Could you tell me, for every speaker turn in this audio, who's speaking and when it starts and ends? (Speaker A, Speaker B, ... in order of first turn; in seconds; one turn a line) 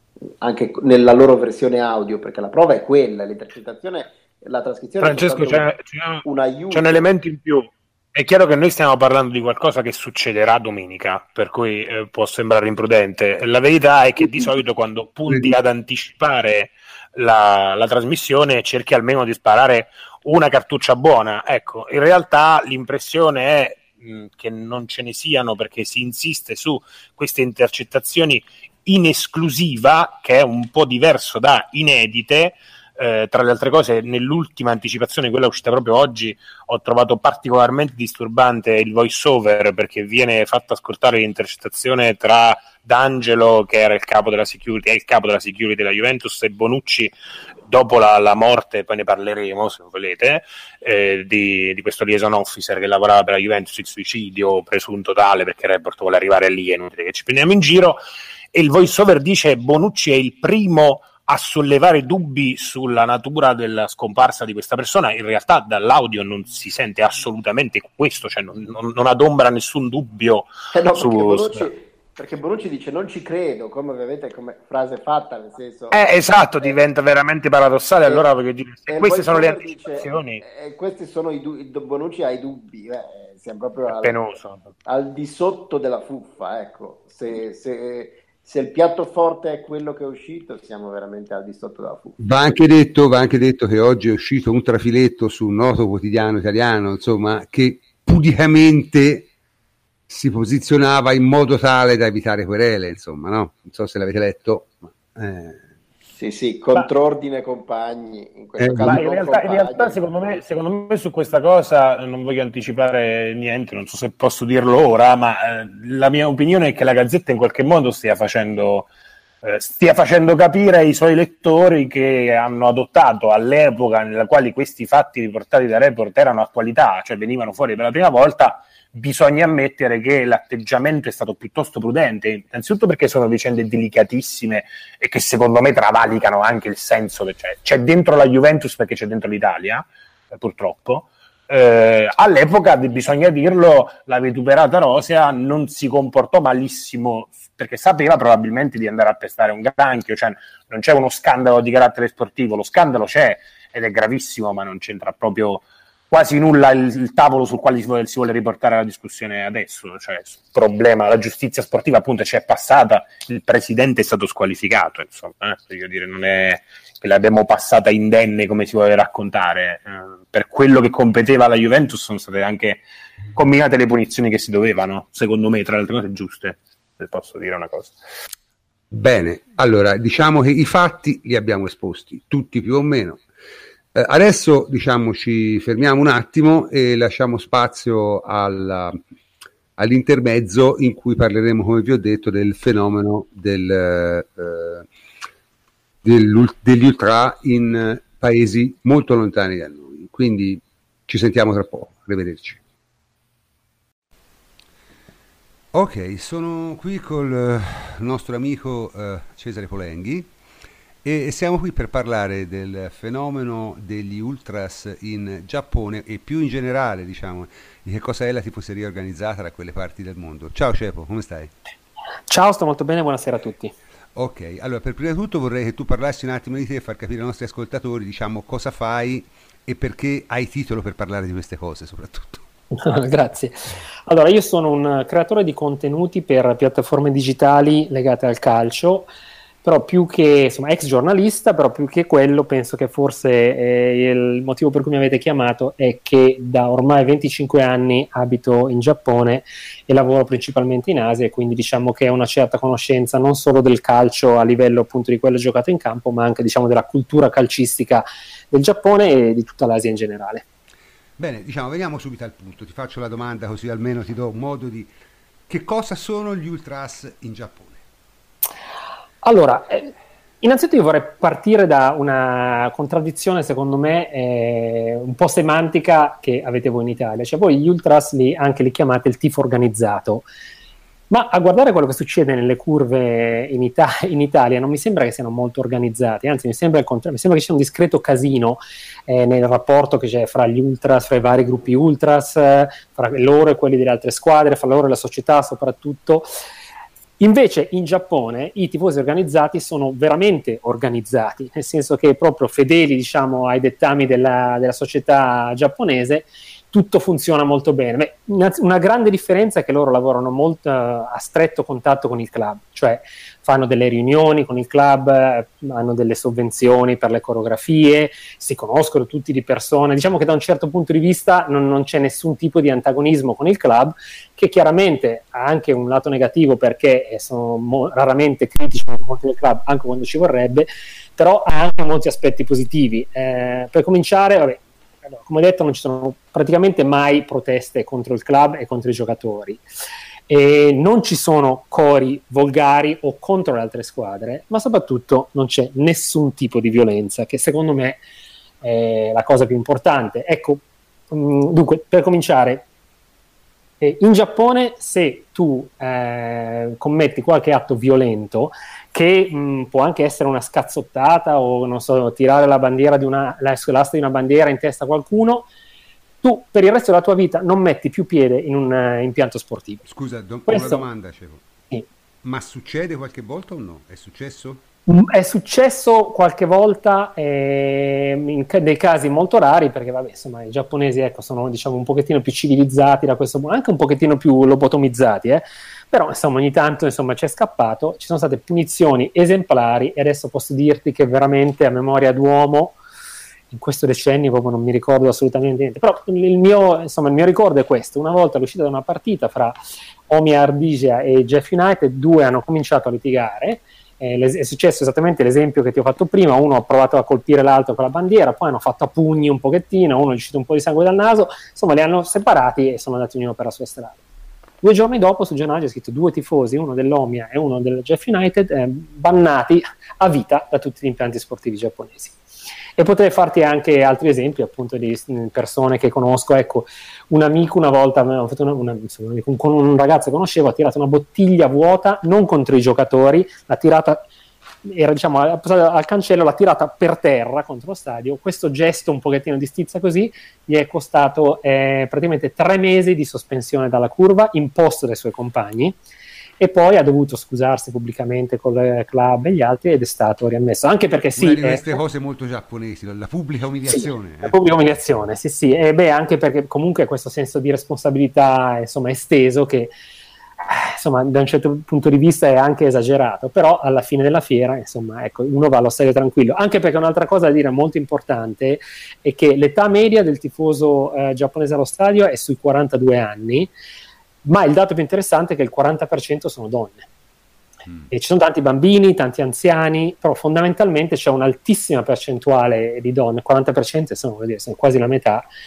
Speaker A: 0.4-5.7
Speaker B: 5.0-47.1
Speaker A: 6.2-7.1
Speaker C: 15.3-15.5
Speaker B: 47.7-58.0
Speaker B: 58.5-71.7
Speaker A: 70.7-76.8
Speaker B: 75.9-80.4
Speaker A: 78.9-84.2
Speaker B: 83.9-84.7
Speaker A: 84.9-92.2
Speaker C: 92.2-99.3
Speaker C: 100.1-105.6
Speaker A: 106.2-110.4
Speaker C: 108.6-109.0
Speaker B: 108.8-118.9
Speaker B: 119.4-172.8
Speaker B: 173.3-178.0
Speaker C: 178.9-183.2
Speaker C: 183.9-189.0
Speaker C: 189.8-194.9
Speaker C: 196.0-202.6
Speaker C: 205.7-210.3
Speaker C: 211.0-221.5
Speaker D: 222.3-223.7
Speaker C: 224.2-232.5
Speaker D: 232.8-239.1
Speaker D: 239.6-260.4
Speaker C: 261.2-264.9
Speaker C: 265.5-267.8
Speaker D: 269.2-280.2
Speaker D: 281.1-296.3
Speaker D: 297.2-339.6
Speaker D: 340.3-348.0
Speaker D: 348.6-352.6
Speaker D: 353.8-365.5
Speaker D: 366.2-369.8
Speaker C: 369.8-371.4
Speaker D: 370.5-370.8
Speaker C: 372.2-374.6
Speaker D: 374.9-392.8
Speaker D: 393.5-399.6
Speaker D: 400.1-414.0
Speaker D: 414.6-422.2
Speaker D: 422.8-434.1
Speaker D: 434.6-445.8
Speaker D: 446.4-451.8
Speaker C: 451.2-454.4
Speaker D: 453.7-459.7
Speaker D: 460.5-473.5
Speaker D: 474.2-476.9
Speaker D: 477.9-485.3